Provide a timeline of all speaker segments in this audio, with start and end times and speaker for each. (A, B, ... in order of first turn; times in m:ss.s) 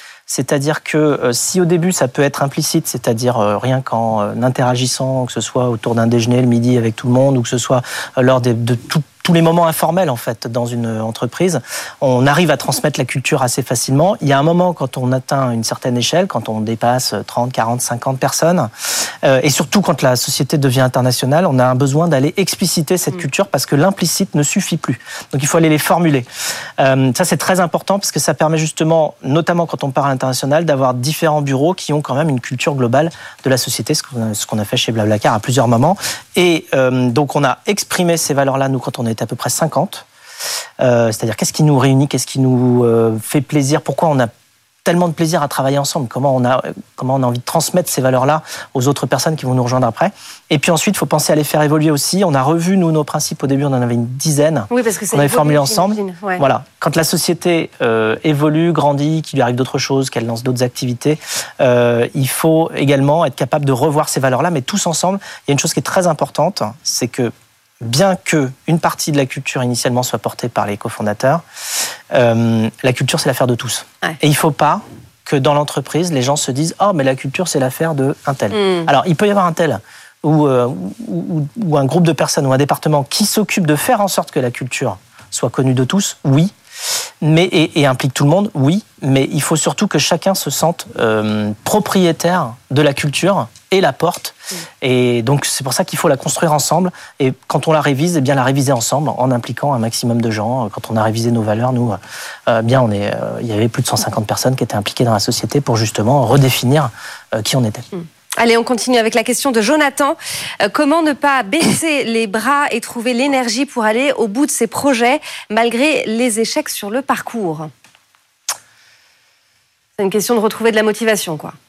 0:00.3-0:18.7 A
0:19.2-0:26.3 A
0:26.8-0:40.0 A
0:40.8-0:44.3 A
0:44.8-1:11.4 A
0:54.7-0:56.4 B
1:12.1-1:26.5 A
1:18.5-1:18.9 B
1:27.2-1:47.8 A
1:47.9-1:57.7 B
2:00.0-2:01.5 B